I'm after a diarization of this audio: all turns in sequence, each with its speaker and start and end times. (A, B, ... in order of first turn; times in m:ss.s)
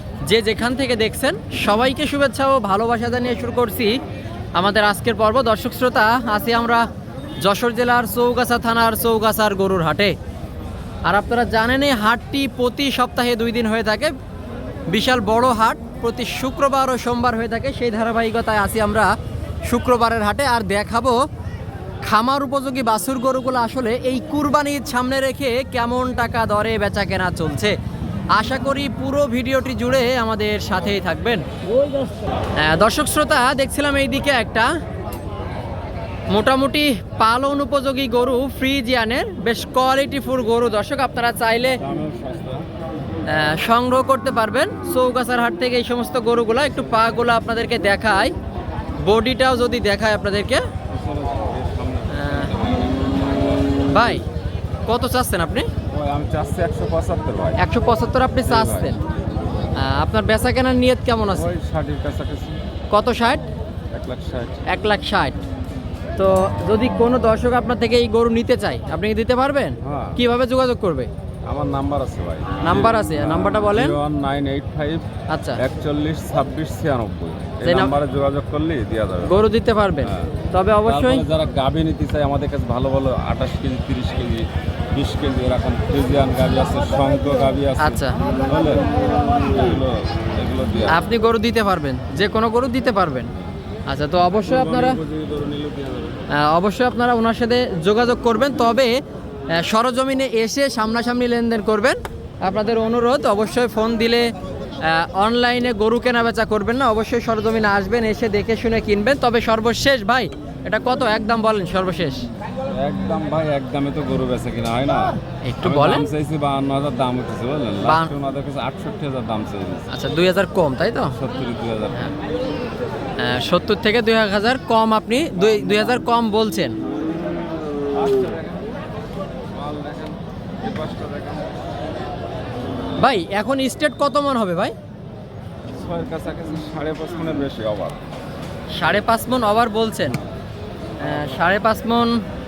0:00.2-0:04.0 A
0:04.6-0:06.8 A
0:07.4-0:10.2 A
0:11.0-0:14.1 A
0:14.9-0:19.1 A
0:19.6-0:21.2 A
0:22.0-0:27.8 A
0:28.3-0:31.4 A
0:32.6-0:34.7 A
0:36.3-0:41.8 A
0:41.8-0:42.7 B
0:43.3-0:48.3 A
0:49.0-0:50.7 A
0:50.9-0:53.6 B
0:52.1-0:52.5 A
0:53.9-0:54.2 A
0:54.8-0:55.7 A
0:55.9-0:57.6 B
0:57.6-0:59.0 A
0:58.4-0:59.0 B
0:59.8-1:01.5 A
1:01.3-1:02.6 B
1:02.9-1:03.4 A
1:03.9-1:04.6 B
1:04.7-1:05.4 A
1:06.2-1:11.1 A
1:09.8-1:10.2 B
1:11.4-1:15.0 B
1:12.6-1:14.0 A
1:15.3-1:15.6 A
1:15.6-1:19.4 B
1:17.6-1:18.0 A
1:19.2-1:21.2 A
1:20.0-1:31.0 B
1:27.8-1:28.2 A
1:30.9-1:33.3 A
1:33.9-1:35.0 A
1:34.4-1:36.2 B
1:36.3-1:39.0 A
1:39.5-1:52.2 A
1:52.7-1:59.9 B
1:55.4-1:56.1 A
1:57.8-1:58.1 A
1:59.9-2:01.2 A
2:01.1-2:02.1 B
2:03.2-2:06.8 A
2:07.9-2:08.8 B
2:09.5-2:11.6 B
2:13.0-2:14.7 A
2:15.7-2:18.0 B
2:18.7-2:20.2 A
2:21.0-2:22.2 A
2:21.1-2:21.3 B